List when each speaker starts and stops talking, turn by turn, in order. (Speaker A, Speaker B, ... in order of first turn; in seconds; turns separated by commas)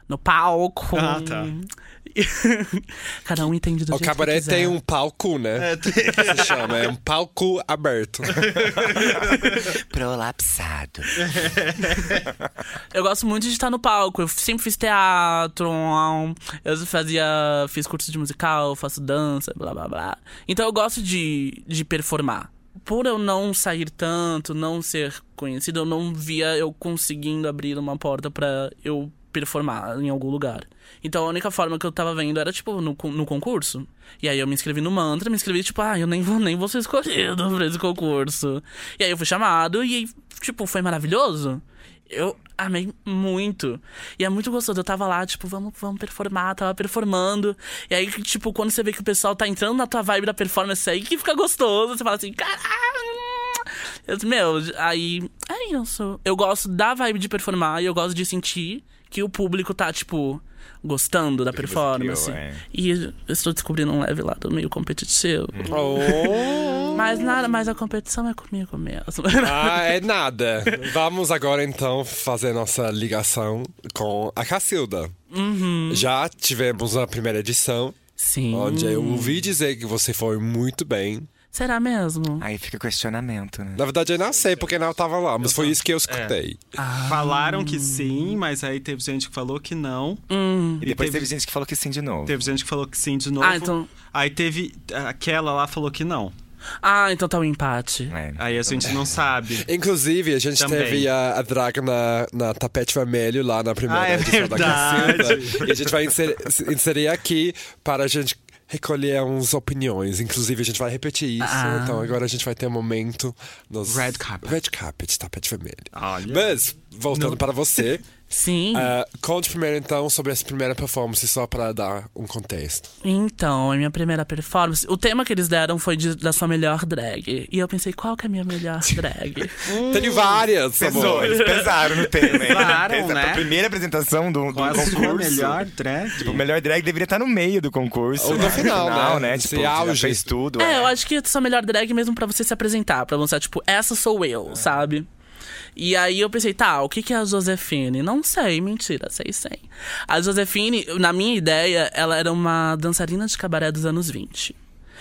Speaker A: 0.1-4.8, Speaker B: 0.9-1.5, Speaker C: 3.9-8.7, Speaker B: 5.6-6.8, Speaker B: 8.4-9.6, Speaker D: 8.9-11.3, Speaker B: 11.2-12.2, Speaker A: 12.9-66.3, Speaker D: 61.5-62.6, Speaker D: 65.5-65.8, Speaker C: 65.7-67.2, Speaker A: 66.9-70.0, Speaker C: 69.4-75.1, Speaker A: 75.3-76.1, Speaker C: 75.9-78.0, Speaker A: 78.2-79.5, Speaker C: 78.5-81.3, Speaker A: 81.5-82.5, Speaker D: 82.4-83.8, Speaker C: 83.8-86.6, Speaker B: 85.4-86.3, Speaker A: 86.8-88.4, Speaker B: 87.1-90.2, Speaker A: 90.3-90.9, Speaker B: 90.8-91.3, Speaker D: 90.8-92.5, Speaker B: 92.3-96.3, Speaker A: 93.4-93.9, Speaker A: 96.8-98.1, Speaker D: 98.1-99.2, Speaker B: 98.4-99.7, Speaker C: 99.5-118.1, Speaker B: 100.6-101.1, Speaker B: 103.9-105.8, Speaker A: 111.4-112.2, Speaker B: 113.9-114.6, Speaker B: 115.9-116.6, Speaker B: 117.1-117.4, Speaker A: 118.3-118.9, Speaker C: 118.7-122.9, Speaker A: 123.0-129.6, Speaker B: 129.7-130.5, Speaker C: 129.9-131.5, Speaker D: 130.8-135.7, Speaker A: 131.2-132.7, Speaker B: 132.4-133.5, Speaker B: 134.5-136.4, Speaker D: 136.2-140.9, Speaker C: 138.2-140.3, Speaker A: 140.6-145.1, Speaker A: 145.8-154.6